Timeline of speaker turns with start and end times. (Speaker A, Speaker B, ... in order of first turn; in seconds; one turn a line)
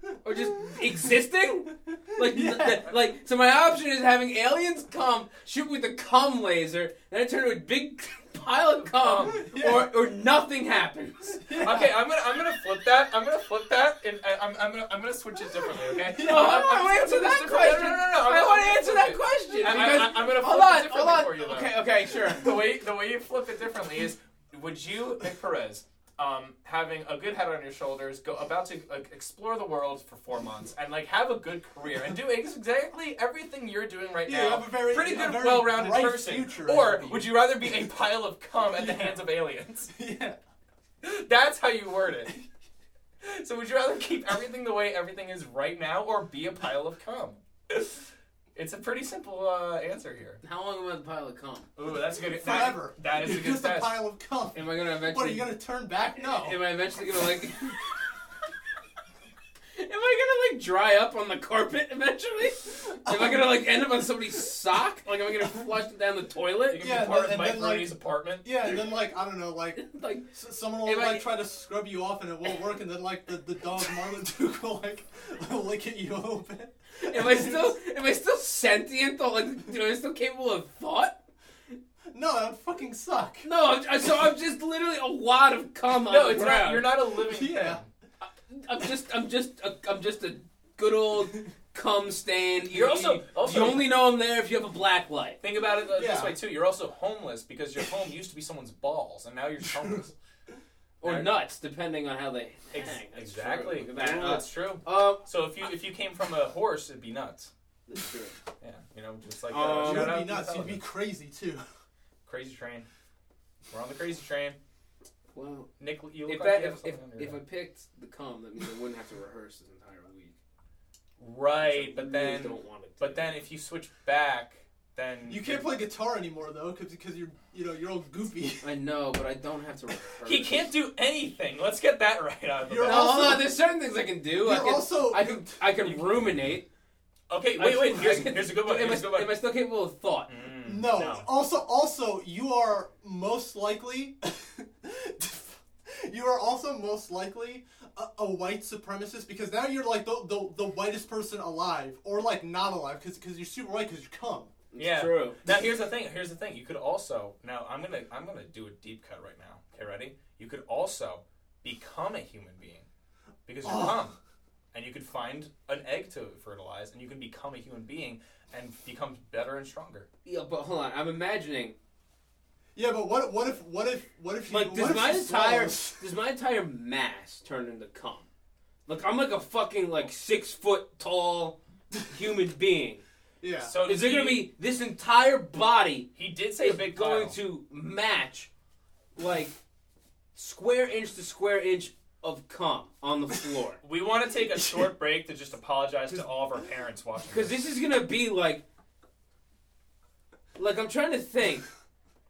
Speaker A: 0.2-11.6
Speaker B: 2.1-2.9
Speaker C: 9.0-9.4
Speaker B: 9.3-9.9
Speaker B: 11.4-11.9
Speaker C: 11.6-39.9
Speaker B: 15.9-16.7
Speaker A: 16.1-22.5
Speaker B: 34.2-37.3
Speaker B: 38.7-39.2
Speaker B: 39.9-40.4
Speaker C: 41.0-42.3
Speaker C: 43.2-50.4
Speaker A: 50.4-51.7
Speaker C: 51.8-54.0
Speaker B: 52.3-56.6
Speaker A: 54.5-55.5
Speaker A: 56.2-57.9
Speaker A: 59.7-66.9
Speaker B: 63.0-63.4
Speaker C: 66.7-68.5
Speaker B: 66.8-77.7
Speaker A: 69.7-70.3
Speaker A: 70.8-71.3
Speaker A: 77.0-81.2
Speaker B: 82.1-83.5
Speaker A: 83.4-86.9
Speaker C: 86.0-87.9
Speaker B: 87.1-87.8
Speaker A: 88.2-95.4
Speaker C: 92.7-93.9
Speaker C: 95.4-100.1
Speaker B: 95.9-96.4
Speaker B: 99.7-100.0
Speaker A: 101.0-105.2
Speaker C: 101.0-101.3
Speaker C: 102.7-107.5
Speaker A: 107.9-108.4
Speaker C: 108.6-110.8
Speaker A: 109.5-110.1
Speaker B: 109.7-111.6
Speaker C: 112.3-112.9
Speaker C: 113.7-114.6
Speaker A: 115.3-115.7
Speaker C: 115.8-117.4
Speaker A: 116.3-120.4
Speaker C: 121.2-125.7
Speaker A: 121.6-123.3
Speaker B: 125.3-128.7
Speaker A: 128.6-130.6
Speaker C: 130.2-133.4
Speaker B: 132.6-133.6
Speaker A: 132.8-136.7
Speaker B: 134.4-135.6
Speaker C: 135.8-136.3
Speaker C: 137.3-139.4
Speaker A: 137.6-140.3
Speaker C: 140.3-141.3
Speaker B: 140.6-154.5
Speaker A: 154.7-155.4
Speaker C: 154.8-162.9
Speaker C: 163.4-164.2
Speaker B: 163.6-164.0
Speaker C: 164.7-170.1
Speaker A: 170.2-171.8
Speaker B: 172.7-176.1
Speaker A: 174.5-178.3
Speaker A: 178.9-183.0
Speaker B: 183.4-183.7
Speaker C: 183.6-184.5
Speaker A: 183.8-186.1
Speaker C: 186.2-187.4
Speaker A: 186.6-188.5
Speaker A: 189.2-189.6
Speaker A: 190.4-193.8
Speaker C: 193.8-197.6
Speaker A: 197.3-198.6
Speaker A: 200.6-201.7